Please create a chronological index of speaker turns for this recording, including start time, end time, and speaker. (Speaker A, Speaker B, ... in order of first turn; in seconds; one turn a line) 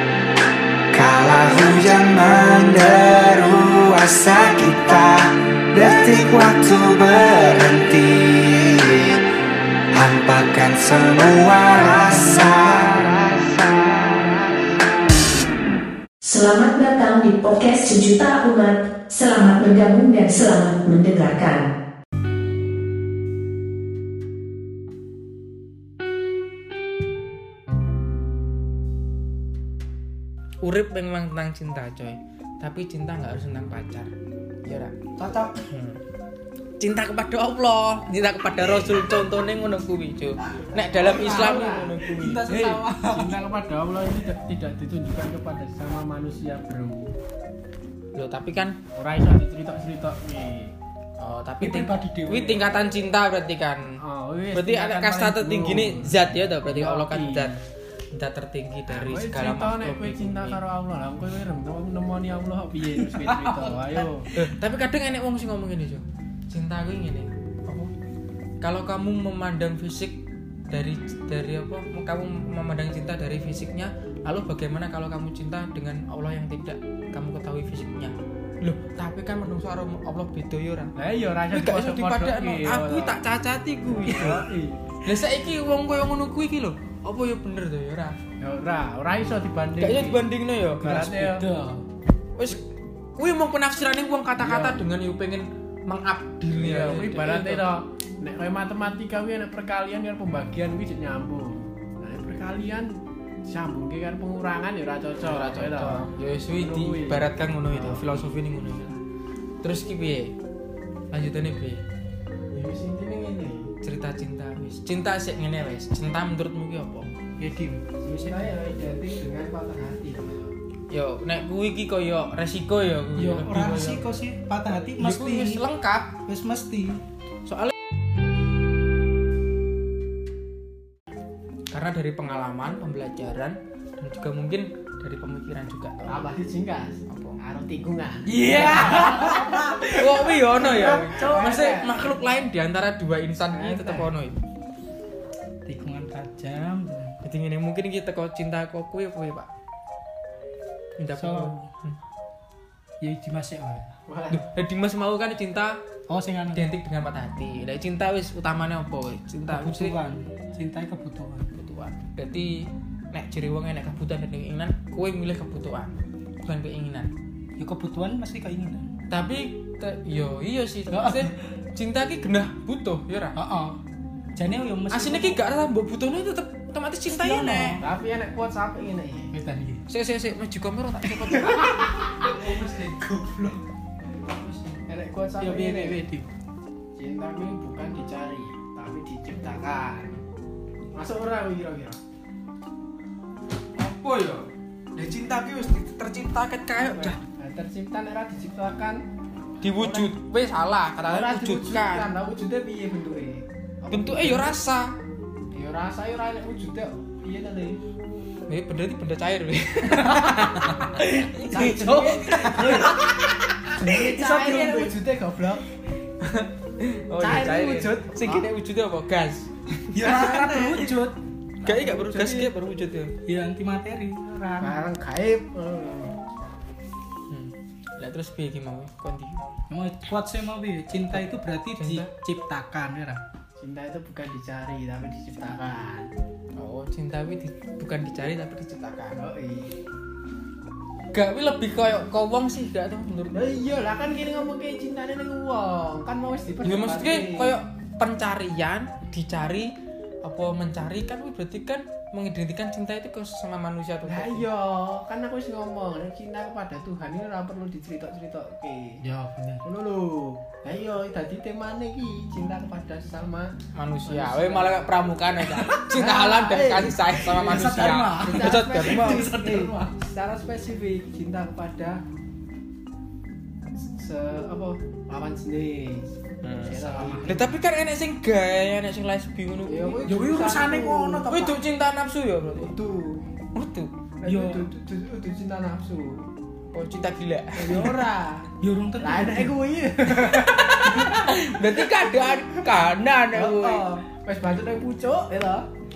Speaker A: 0.9-9.2
Speaker A: 9.9-13.7
Speaker B: 16.2-21.7
Speaker C: 30.6-34.1
Speaker C: 34.6-35.0
Speaker D: 35.2-35.6
Speaker C: 35.7-36.0
Speaker C: 36.8-42.4
Speaker E: 40.9-42.0
Speaker D: 41.1-43.4
Speaker E: 42.5-47.1
Speaker C: 48.1-48.8
Speaker E: 48.9-50.7
Speaker C: 51.2-54.0
Speaker D: 51.6-52.7
Speaker E: 54.0-57.6
Speaker C: 54.5-57.6
Speaker C: 58.1-60.6
Speaker E: 58.9-64.3
Speaker D: 62.8-64.5
Speaker C: 64.4-67.9
Speaker C: 68.6-70.2
Speaker C: 70.7-80.9
Speaker E: 81.0-83.2
Speaker C: 81.5-84.4
Speaker E: 83.9-84.8
Speaker C: 85.0-88.2
Speaker E: 88.4-90.2
Speaker C: 89.8-91.4
Speaker E: 90.8-91.5
Speaker D: 91.4-91.8
Speaker C: 93.2-97.7
Speaker E: 94.4-94.8
Speaker E: 96.5-108.2
Speaker C: 105.2-109.0
Speaker C: 109.6-110.3
Speaker C: 111.1-111.8
Speaker E: 112.5-113.7
Speaker C: 113.8-117.1
Speaker D: 117.4-118.4
Speaker E: 118.0-120.5
Speaker C: 120.9-124.1
Speaker D: 123.2-125.6
Speaker C: 125.0-126.2
Speaker D: 126.2-127.0
Speaker C: 127.5-127.7
Speaker C: 131.7-136.4
Speaker E: 136.1-139.8
Speaker C: 137.1-137.4
Speaker D: 138.3-141.0
Speaker C: 138.3-144.4
Speaker E: 140.6-142.1
Speaker E: 143.5-144.1
Speaker D: 145.7-147.2
Speaker C: 147.2-149.5
Speaker C: 151.0-152.0
Speaker D: 151.2-151.7
Speaker D: 153.0-153.9
Speaker E: 154.1-154.4
Speaker C: 154.3-155.8
Speaker D: 156.1-156.7
Speaker C: 156.5-160.0
Speaker D: 159.5-161.5
Speaker C: 161.5-165.9
Speaker C: 166.4-167.1
Speaker D: 167.6-168.9
Speaker C: 169.1-173.4
Speaker D: 170.9-171.5
Speaker D: 173.3-173.8
Speaker D: 174.3-175.4
Speaker C: 174.9-177.8
Speaker D: 177.1-177.8
Speaker E: 177.8-179.3
Speaker D: 179.3-179.8
Speaker C: 179.9-181.8
Speaker D: 181.0-183.6
Speaker C: 184.3-184.7
Speaker E: 184.9-186.0
Speaker D: 185.4-186.3
Speaker E: 187.0-190.2
Speaker E: 190.9-192.0
Speaker C: 193.8-197.2
Speaker E: 196.8-199.0
Speaker C: 199.6-202.1
Speaker D: 199.8-200.1
Speaker E: 201.1-204.6
Speaker C: 203.9-204.9
Speaker E: 205.5-207.8
Speaker C: 208.5-213.3
Speaker D: 209.9-213.0
Speaker E: 211.5-212.9
Speaker E: 213.7-215.6
Speaker D: 213.8-215.0
Speaker C: 216.2-220.8
Speaker E: 217.2-218.5
Speaker D: 219.9-221.2
Speaker E: 220.0-220.6
Speaker C: 221.6-223.1
Speaker E: 221.7-222.5
Speaker D: 223.2-224.8
Speaker E: 224.6-226.2
Speaker C: 227.3-229.5
Speaker D: 229.7-233.2
Speaker C: 231.8-232.1
Speaker E: 233.6-236.1
Speaker C: 236.5-239.2
Speaker E: 239.2-239.7
Speaker C: 241.1-243.3
Speaker E: 243.3-247.6
Speaker C: 246.6-249.7
Speaker C: 250.2-254.4
Speaker E: 254.0-259.0
Speaker D: 259.0-259.7
Speaker E: 259.6-264.9
Speaker C: 263.7-269.3
Speaker D: 265.4-269.9
Speaker E: 265.9-267.7
Speaker E: 268.2-272.0
Speaker E: 273.8-276.1
Speaker C: 276.4-280.1
Speaker E: 276.6-277.5
Speaker D: 276.7-277.3
Speaker E: 279.7-281.3
Speaker D: 280.1-281.6
Speaker C: 281.3-282.7
Speaker E: 282.5-283.2
Speaker C: 283.6-283.9
Speaker E: 284.2-286.3
Speaker D: 284.3-284.7
Speaker C: 286.7-287.9
Speaker E: 287.6-291.1
Speaker D: 288.6-289.6
Speaker C: 290.8-293.8
Speaker E: 293.3-295.7